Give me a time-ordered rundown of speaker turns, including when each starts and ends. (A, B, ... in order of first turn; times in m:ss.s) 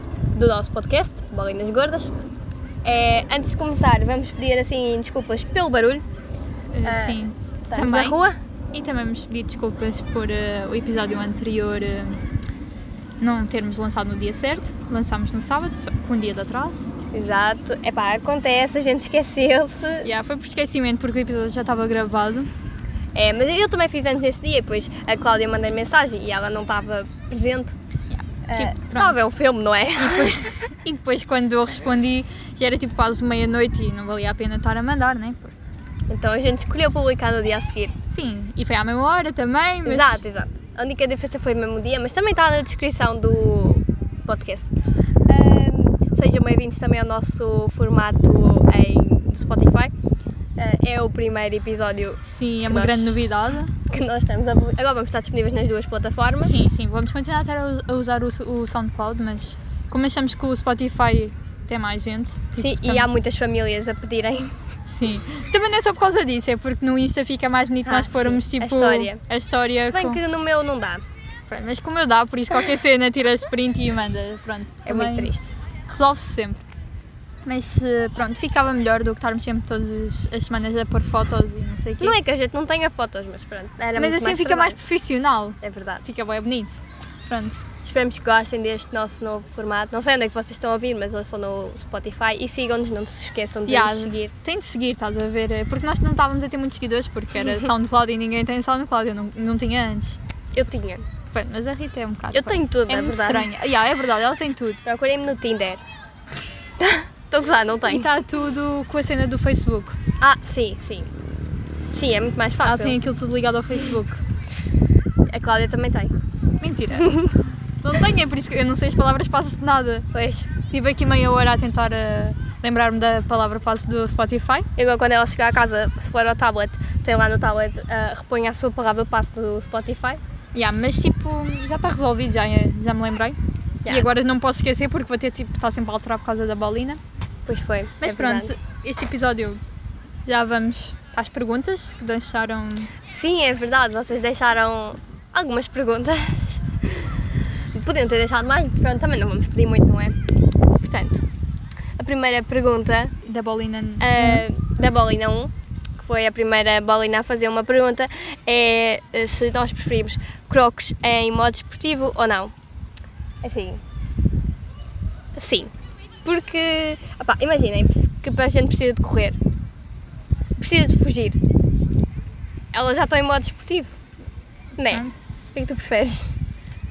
0:00.3-0:02.1 A
0:02.8-0:06.0 A
0:06.7-0:08.2 B
0:06.8-0:07.2 A
0:07.7-0:08.3 A
0:08.7-0:12.2 B
0:13.2-0:16.9 B
0:17.1-0:20.1 A
0:20.0-0:22.5 B
0:23.1-0:27.7 A
0:28.1-0:29.2 B
0:28.5-0:30.4 A
0:30.0-0:35.6 B
0:36.1-0:37.9 A
0:38.1-0:40.2 B
0:39.8-0:44.7 A
0:45.3-0:49.9 A
0:50.6-0:53.2 A
0:52.3-0:53.7 B
0:53.8-0:56.5 A
0:56.4-1:03.1 B
1:02.6-1:04.5 A
1:04.8-1:10.2 B
1:07.8-1:09.2 A
1:09.8-1:11.0 A
1:11.5-1:15.3 B
1:14.8-1:15.5 A
1:15.9-1:16.6 B
1:17.4-1:22.2 B
1:22.0-1:24.8 A
1:24.0-1:27.6 B
1:25.6-1:26.0 A
1:27.8-1:34.3 A
1:33.6-1:40.2 B
1:37.4-1:37.7 A
1:40.5-1:41.0 A
1:41.3-1:44.8 B
1:42.3-1:43.5 A
1:44.8-1:45.8 A
1:46.8-1:48.1 A
1:47.9-1:50.0 B
1:50.2-1:51.1 A
1:51.9-1:53.0 A
1:52.6-1:54.2 B
1:55.3-1:56.1 A
1:56.6-1:57.2 B
1:57.0-1:57.5 A
1:57.8-2:00.0 B
2:00.1-2:00.5 A
2:00.7-2:04.7 B
2:04.8-2:10.2 A
2:10.5-2:17.0 B
2:13.8-2:14.1 A
2:17.4-2:18.5 A
2:18.0-2:19.6 B
2:20.2-2:22.9 B
2:23.0-2:27.1 A
2:27.7-2:30.2 A
2:30.7-2:31.2 A
2:32.0-2:33.1 A
2:33.2-2:34.4 B
2:34.0-2:42.5 A
2:43.4-2:43.8 A
2:45.4-2:45.7 A
2:46.2-2:49.4 A
2:50.6-2:51.4 A
2:52.7-2:54.0 A
2:54.8-2:56.2 A
2:54.9-2:55.1 B